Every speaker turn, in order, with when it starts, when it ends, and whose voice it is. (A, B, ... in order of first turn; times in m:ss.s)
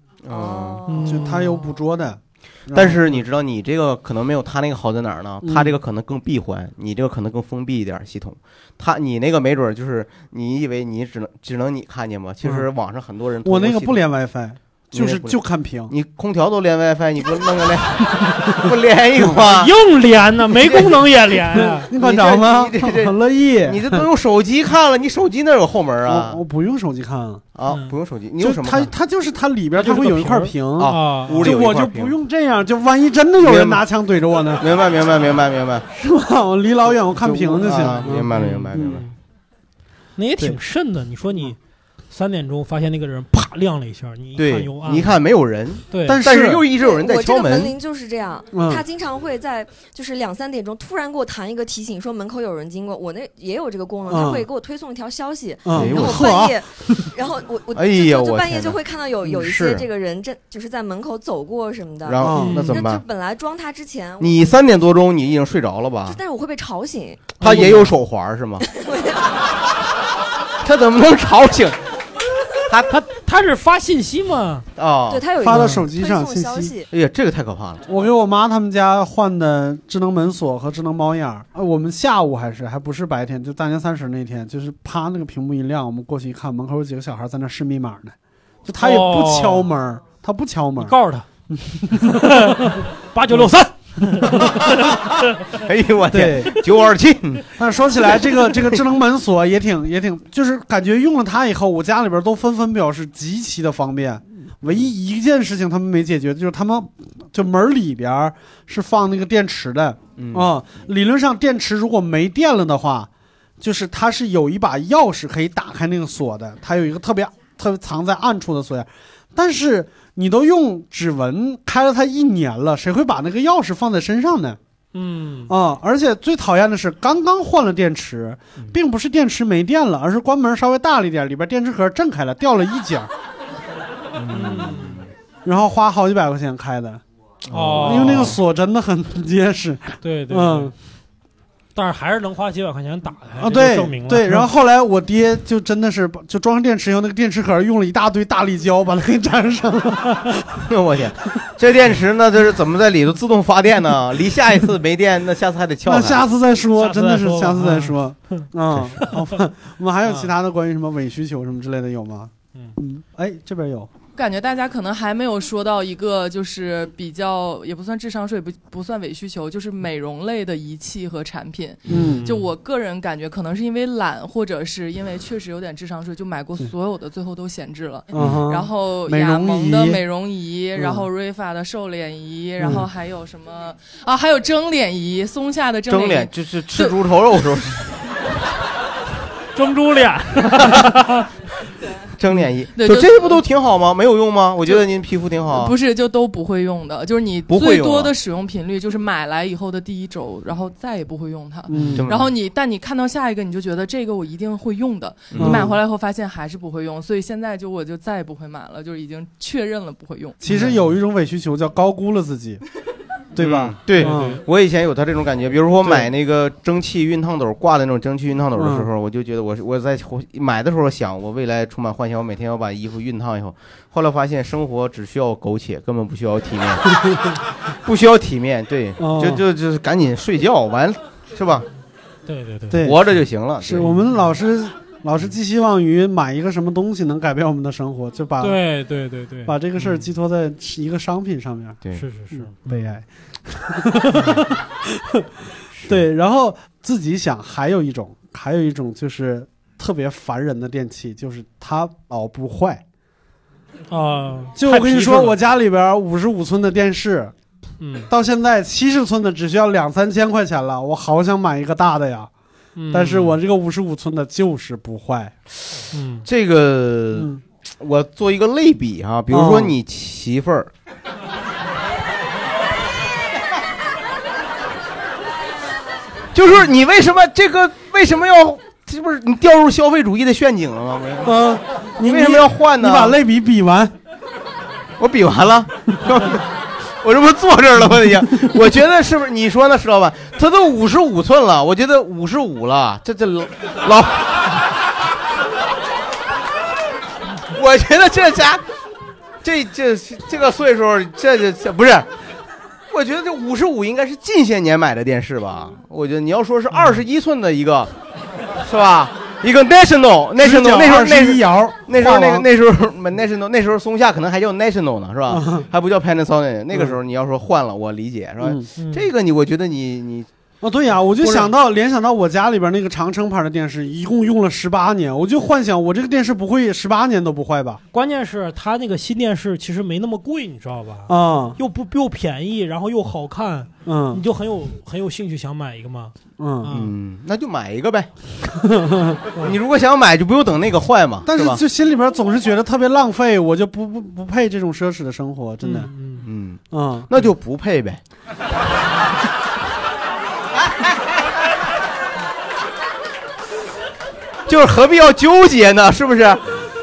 0:00.2-0:01.0 A
0:00.3-0:01.3 B
0:00.9-0:01.6 C
0:01.0-0:03.2 D
0:02.7-0:14.0 A
0:05.4-0:05.8 D
0:13.4-0:15.9 D
0:14.9-0:19.7 A
0:19.5-0:21.9 C
0:20.6-0:21.0 A
0:21.6-0:24.0 D
0:22.0-0:26.4 A
0:26.0-0:27.4 D
0:27.6-0:28.9 A
0:27.7-0:27.9 C
0:28.4-0:34.7 D
0:29.8-0:31.4 C
0:30.8-0:32.1 A
0:33.4-0:33.8 A
0:34.6-0:35.9 A
0:35.9-0:39.0 D
0:37.2-0:39.0 A
0:38.3-0:39.1 C
0:40.2-0:41.6 C
0:42.1-0:45.1 C
0:44.4-0:47.8 A
0:45.9-0:46.2 C
0:46.1-0:46.7 D
0:46.8-1:04.5 B
0:48.5-0:48.8 D
0:54.1-0:54.5 D
0:55.6-0:57.1 D
0:55.7-0:56.3 A
0:57.7-0:58.8 A
0:59.2-0:59.8 D
1:02.0-1:03.0 A
1:02.2-1:02.6 D
1:02.4-1:02.7 C
1:04.2-1:06.2 A
1:06.1-1:07.3 B
1:07.4-1:08.6 A
1:07.4-1:07.9 C
1:08.6-1:09.4 B
1:10.6-1:11.8 A
1:12.9-1:14.7 C
1:14.8-1:15.2 A
1:15.1-1:16.9 B
1:15.4-1:16.7 D
1:15.5-1:15.8 C
1:16.9-1:17.9 A
1:17.9-1:31.0 D
1:28.8-1:29.7 C
1:30.8-1:31.3 C
1:31.5-1:32.4 D
1:32.0-1:35.2 C
1:34.1-1:34.5 D
1:35.6-1:37.4 A
1:36.1-1:36.6 D
1:37.6-1:53.1 D
1:50.2-1:50.5 A
1:53.6-2:04.6 D
2:04.9-2:05.5 C
2:05.5-2:13.1 D
2:14.2-2:15.0 A
2:14.3-2:15.0 C
2:15.4-2:17.0 D
2:17.5-2:18.4 A
2:17.5-2:18.4 C
2:17.8-2:20.7 D
2:20.0-2:20.7 C
2:21.8-2:24.4 C
2:23.4-2:30.6 D
2:30.7-2:36.2 A
2:35.8-2:43.9 D
2:36.8-2:38.4 C
2:39.0-2:39.4 C
2:40.1-2:40.3 C
2:44.2-3:07.0 E
2:51.9-2:52.3 D
2:51.9-2:52.5 C
2:58.2-3:00.0 D
3:00.8-3:01.0 D
3:02.6-3:02.9 D
3:05.9-3:07.8 A
3:09.6-3:11.3 C
3:10.5-3:10.8 A
3:12.2-3:15.7 A
3:12.8-3:13.4 E
3:15.5-3:30.4 E
3:17.5-3:18.1 A
3:21.7-3:22.1 D
3:22.0-3:22.3 A
3:25.3-3:25.7 A
3:25.4-3:25.8 D
3:30.4-3:32.6 D
3:30.5-3:30.8 C
3:33.4-3:34.4 D
3:33.4-3:47.0 A
3:34.0-3:34.4 C
3:38.5-3:38.9 D
3:47.8-3:51.7 A
3:49.0-3:49.4 D
3:52.3-3:52.8 C
3:52.7-3:53.0 D
3:52.8-3:53.9 A
3:53.6-3:58.6 D
3:58.4-4:00.0 C
3:59.5-4:01.8 D
4:02.0-4:02.6 C
4:02.3-4:05.3 D
4:05.9-4:12.8 D
4:13.9-4:15.4 C
4:14.6-4:17.3 D
4:17.8-4:18.1 C
4:18.1-4:22.3 D
4:22.8-4:23.4 C
4:22.9-4:25.4 D
4:25.9-4:26.2 C
4:26.3-4:30.7 A
4:27.1-4:27.4 D
4:29.3-4:29.7 D
4:36.3-4:41.4 A
4:41.2-4:43.9 D
4:42.0-4:43.2 A
4:45.0-4:46.4 A
4:47.0-4:54.4 A
4:57.5-4:58.6 A
4:59.4-5:02.1 A
5:02.9-5:07.9 A
5:08.6-5:20.3 A
5:10.4-5:12.5 D
5:15.3-5:15.7 D
5:16.7-5:17.0 D
5:18.8-5:19.0 C
5:20.6-5:27.8 D
5:27.9-5:36.9 C
5:31.1-5:31.6 D
5:33.8-5:34.2 D
5:36.4-5:36.8 D
5:36.7-5:38.1 A
5:38.6-5:39.2 D
5:39.4-5:41.6 A
5:41.3-5:45.9 D
5:45.6-5:46.2 C
5:46.2-5:48.0 A
5:46.7-5:47.2 D
5:54.5-5:56.6 A